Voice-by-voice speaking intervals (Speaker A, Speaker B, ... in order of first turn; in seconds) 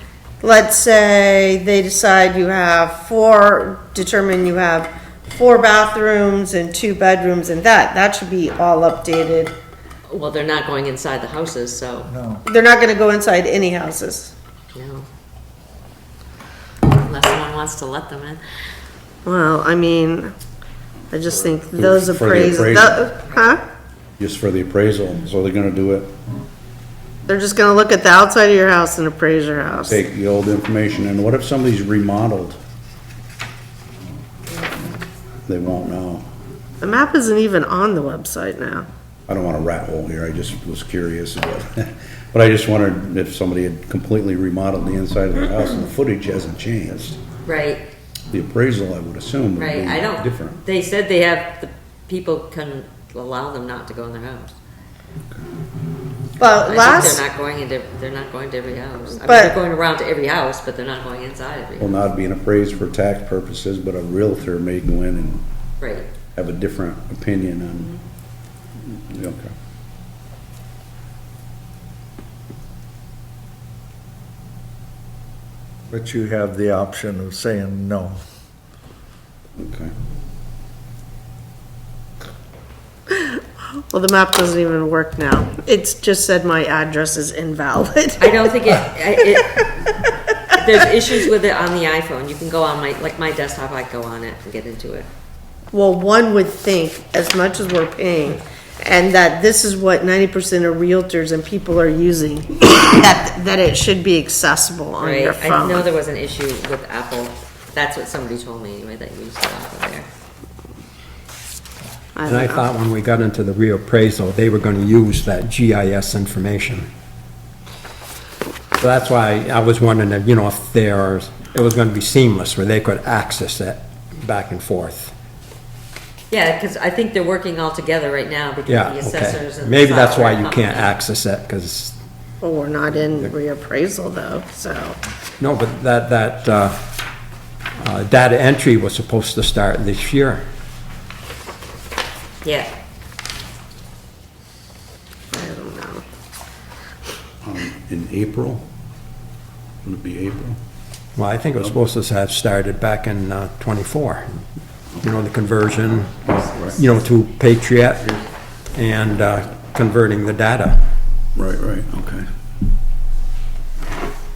Speaker A: 0.4-9.6, 12.4-14.3, 19.2-20.3, 21.1-23.6, 27.3-30.0, 36.8-38.9, 56.4-57.2, 59.2-59.5, 83.1-88.5, 95.7-105.9, 112.2-112.7, 132.4-135.0, 145.3-146.0
Speaker B: 10.1-12.1, 14.8-15.1, 16.9-18.4, 47.5-47.9, 49.6-54.5, 56.6-62.0, 65.8-66.1, 88.2-89.8, 90.5-95.1, 105.0-110.1, 126.3-130.9, 142.4-142.7
Speaker C: 12.1-12.4, 75.9-78.2
Speaker D: 21.8-23.1, 24.2-26.1, 29.8-32.6, 35.5-36.3, 39.3-47.2, 48.3-50.6, 61.8-65.4, 66.3-68.0, 68.9-69.5, 79.6-79.9, 147.4-148.7, 149.8-150.6, 156.3-156.8, 161.4-162.3
Speaker E: 112.2-116.9, 118.8-125.1, 128.7-132.0, 135.4-136.8, 137.8-140.4, 151.2-154.4, 155.0-158.2, 158.7-160.8